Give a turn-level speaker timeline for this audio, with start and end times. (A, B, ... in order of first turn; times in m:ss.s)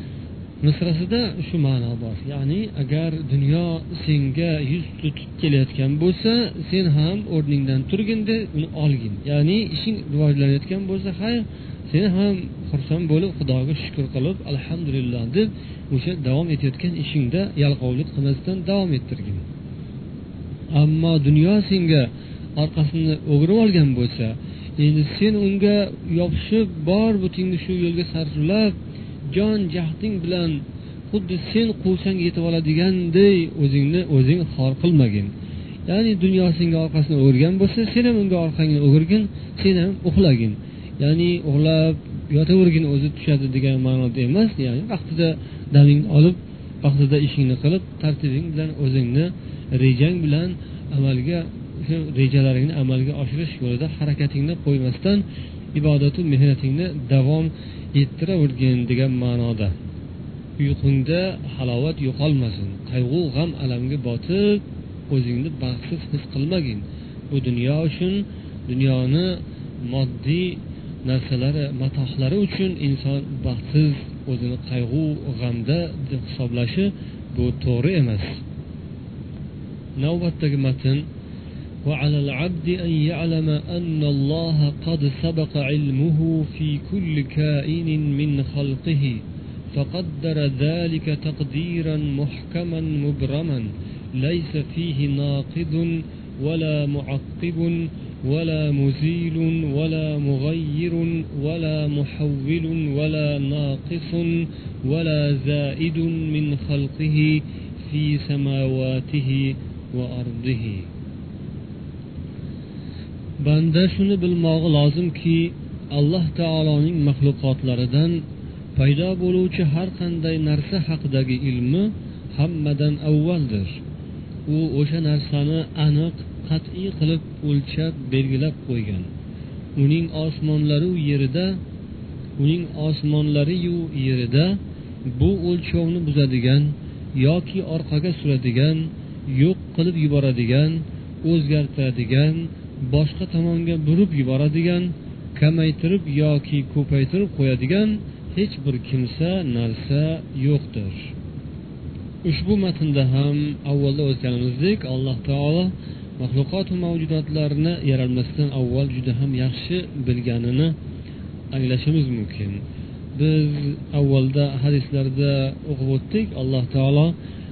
0:00.6-0:19.4 A
0:20.7-0:28.8 A
0:29.3-0:35.3 A
0:35.9-0:59.8 A
1:00.6-1:18.4 A
1:20.0-1:21.1 A
1:21.8-1:50.9 A
1:53.4-2:03.8 A
2:04.5-2:09.1 A
2:09.8-2:11.6 A
2:12.4-2:31.1 A
2:32.2-2:40.8 A
2:41.5-2:47.2 A